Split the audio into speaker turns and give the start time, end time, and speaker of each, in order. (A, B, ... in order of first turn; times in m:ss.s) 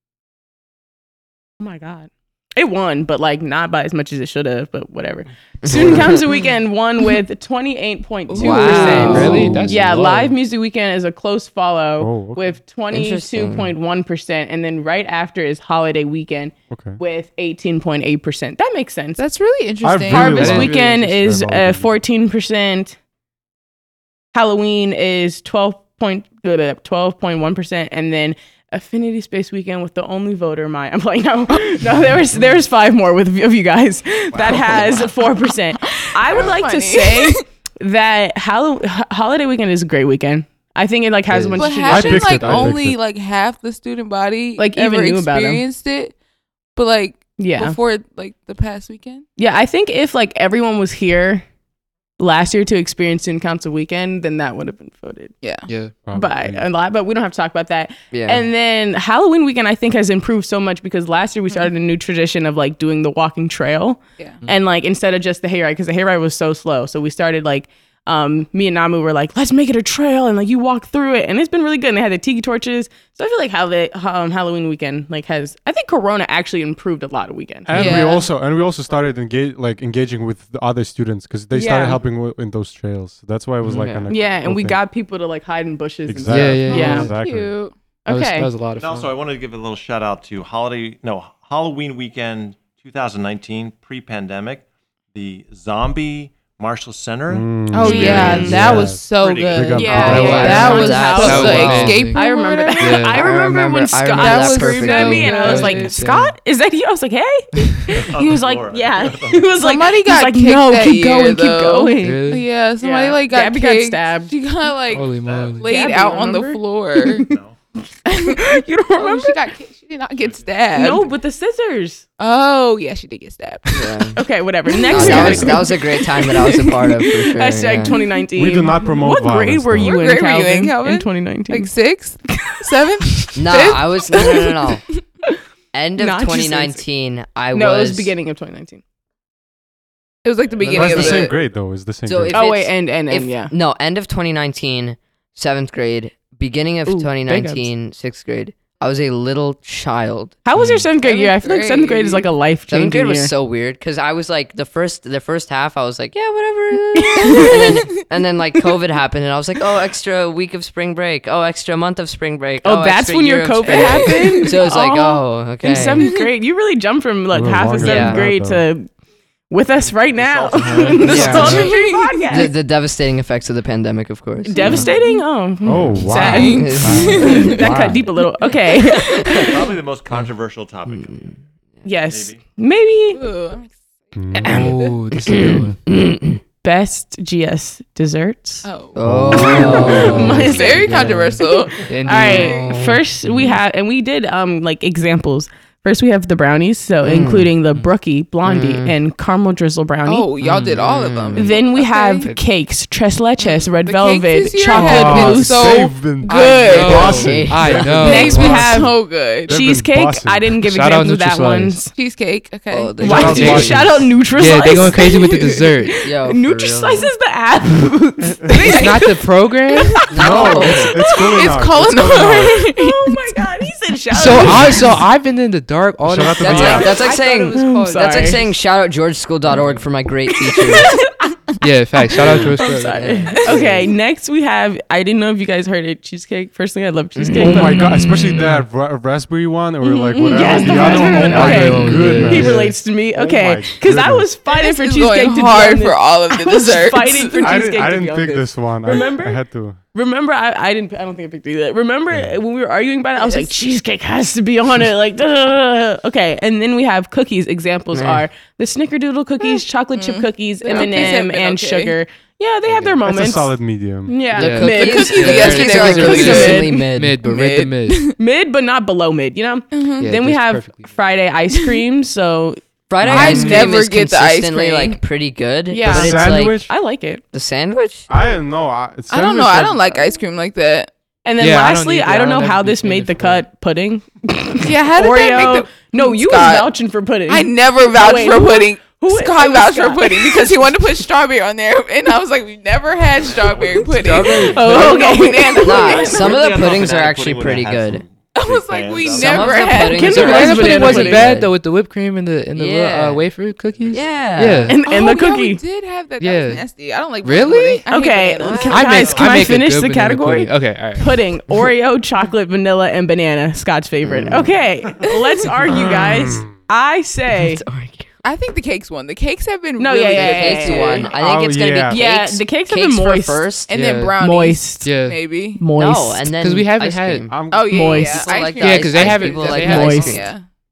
0:01.6-0:19.2 A
0:05.6-0:06.3 B
0:08.3-0:09.5 C
0:08.4-0:09.7 B
0:08.6-0:10.3 D
0:12.0-0:12.6 E
0:12.9-0:13.7 B
0:16.7-0:17.0 E
0:19.2-0:20.5 C
0:19.8-0:22.0 E
0:20.1-0:23.0 A
0:20.2-0:21.1 D
0:24.3-0:42.7 A
0:34.5-0:35.0 F
0:35.8-0:37.4 C
0:41.3-0:41.7 D
0:41.6-0:46.1 C
0:41.8-0:43.0 E
0:42.4-0:42.7 D
0:44.6-0:45.6 A
0:46.8-0:49.2 C
0:47.4-0:47.8 A
0:49.4-0:51.4 A
0:52.2-0:55.3 A
0:55.4-0:55.7 C
0:55.7-0:56.0 D
0:56.0-0:56.6 E
0:56.1-1:18.1 A
0:58.1-0:58.5 B
1:17.7-1:24.8 E
1:17.7-1:18.3 C
1:21.5-1:22.0 A
1:23.6-1:24.1 B
1:23.7-1:23.9 D
1:24.1-1:27.1 A
1:26.1-1:27.5 E
1:26.3-1:27.1 D
1:26.7-1:27.7 C
1:28.0-1:28.5 A
1:28.1-1:29.1 D
1:28.8-1:39.9 F
1:37.3-1:40.9 E
1:37.7-1:43.0 C
1:39.7-1:52.3 A
1:39.9-1:41.9 B
1:40.1-1:42.2 D
1:42.8-1:43.2 D
1:43.2-1:45.4 B
1:44.1-1:45.9 C
1:45.0-1:46.3 D
1:47.6-1:48.0 D
1:47.9-1:49.6 F
1:49.6-1:57.2 C
1:52.0-1:52.4 D
1:52.8-1:54.3 A
1:54.9-1:55.8 D
1:55.1-1:55.6 F
1:55.6-1:57.4 A
1:57.2-1:57.5 F
1:58.1-1:58.4 C
1:58.1-1:59.4 A
1:59.0-2:01.1 C
2:00.7-2:02.0 A
2:02.2-2:04.1 C
2:03.7-2:04.2 B
2:04.2-2:11.7 A
2:04.8-2:05.6 C
2:04.9-2:07.9 B
2:05.0-2:05.5 E
2:08.4-2:10.0 E
2:09.8-2:14.5 C
2:13.4-2:14.8 B
2:15.7-2:18.1 B
2:16.0-2:16.8 A
2:17.5-2:18.8 A
2:20.2-2:21.4 C
2:20.6-2:21.3 B
2:20.6-2:22.4 E
2:22.0-2:30.4 B
2:22.3-2:23.5 A
2:26.8-2:27.6 A
2:30.4-2:33.3 A
2:31.0-2:32.3 C
2:32.7-2:46.1 B
2:36.9-2:37.8 A
2:37.3-2:38.0 C
2:42.6-2:48.9 A
2:43.7-2:44.6 C
2:47.3-2:48.6 E
2:47.8-2:48.2 B
2:49.5-2:52.5 A
2:49.9-2:51.5 F
2:50.7-2:51.7 D
2:51.0-2:52.2 C
2:52.3-2:54.8 B
2:54.4-2:59.6 A
2:54.6-2:55.2 C
2:55.6-2:58.0 E
2:56.1-2:57.6 C
2:56.3-2:57.5 B
2:58.9-2:59.5 B
2:59.4-3:01.3 F
3:00.9-3:01.3 B
3:01.8-3:03.2 A
3:02.0-3:02.4 F
3:03.1-3:04.9 C
3:04.2-3:04.7 E
3:04.4-3:05.8 D
3:05.2-3:06.4 B
3:06.6-3:08.6 A
3:08.6-3:09.0 C
3:08.9-3:10.6 B
3:09.0-3:10.5 E
3:09.3-3:10.9 A
3:09.4-3:12.6 D
3:10.2-3:12.6 C
3:11.4-3:20.2 A
3:12.2-3:13.5 B
3:17.0-3:17.5 B
3:18.4-3:18.9 B
3:20.0-3:22.3 C
3:20.4-3:20.8 D
3:20.8-3:21.6 B
3:21.4-3:25.7 A
3:23.4-3:29.5 C
3:24.7-3:30.6 E
3:24.8-3:25.4 D
3:26.3-3:28.7 D
3:27.0-3:28.4 B
3:28.0-3:28.9 A
3:29.5-3:31.9 A
3:30.6-3:31.8 D
3:31.9-3:33.4 C
3:32.7-3:33.8 B
3:33.0-3:41.4 A
3:33.0-3:34.1 E
3:33.0-3:36.0 D
3:36.0-3:37.1 B
3:38.5-3:39.1 C
3:38.6-3:40.1 D
3:39.8-3:43.2 C
3:40.1-3:42.6 E
3:40.1-3:41.0 B
3:42.1-3:45.0 A
3:44.1-3:47.0 D
3:46.0-3:47.1 E
3:46.4-3:51.0 B
3:46.6-3:48.4 A
3:50.5-3:51.3 A
3:50.7-3:51.1 C
3:51.6-3:53.8 D
3:52.6-3:58.0 A
3:52.8-3:53.8 B
3:57.2-3:58.3 B
3:57.4-4:04.3 E
3:59.8-4:01.3 C
4:00.1-4:09.4 A
4:00.6-4:02.8 D
4:04.5-4:08.1 C
4:07.4-4:09.8 E
4:09.9-4:23.5 A
4:13.2-4:13.5 C
4:17.9-4:18.2 B
4:19.4-4:21.9 C
4:22.7-4:23.0 D
4:23.0-4:24.1 E
4:24.0-4:26.8 A
4:24.3-4:27.2 B
4:24.4-4:28.1 D
4:24.7-4:26.6 C
4:27.2-4:28.2 C
4:28.2-4:32.6 A
4:29.7-4:30.0 C
4:30.0-4:31.0 D
4:32.9-4:36.6 B
4:33.0-4:33.7 E
4:33.0-4:35.0 C
4:35.7-4:37.2 A
4:35.8-4:36.7 E
4:37.3-4:38.1 B
4:38.1-4:40.0 E
4:39.1-4:40.9 C
4:41.2-4:50.6 A
4:41.4-4:43.4 D
4:44.6-4:46.7 C
4:47.3-4:56.5 C
4:53.4-4:54.8 F
4:53.9-4:55.0 D
4:54.4-4:56.3 A
4:55.6-4:58.0 B
4:55.8-5:00.2 F
4:58.3-5:01.2 C
4:59.0-5:01.5 B
4:59.8-5:01.3 A
5:00.0-5:04.8 D
5:02.5-5:03.3 B
5:03.9-5:04.8 B
5:04.7-5:05.6 A
5:04.8-5:09.1 C
5:06.2-5:06.6 D
5:07.2-5:07.8 D
5:07.9-5:17.6 A
5:08.4-5:08.8 B
5:08.7-5:11.2 D
5:08.9-5:09.5 F
5:14.0-5:14.5 B
5:15.7-5:16.5 E
5:17.4-5:18.1 B
5:18.2-5:21.1 C
5:19.8-5:21.1 A
5:20.1-5:23.7 B
5:21.2-5:22.0 E
5:21.9-5:23.5 A
5:23.7-5:25.6 C
5:23.7-5:24.2 D
5:24.2-5:24.9 A
5:24.8-5:25.2 D
5:25.6-5:26.3 A
5:25.8-5:27.4 B
5:26.4-5:27.3 D
5:27.3-5:28.1 E
5:27.5-5:30.4 C
5:27.7-5:28.3 A
5:28.0-5:30.3 B
5:28.5-5:30.2 D
5:29.6-5:30.1 A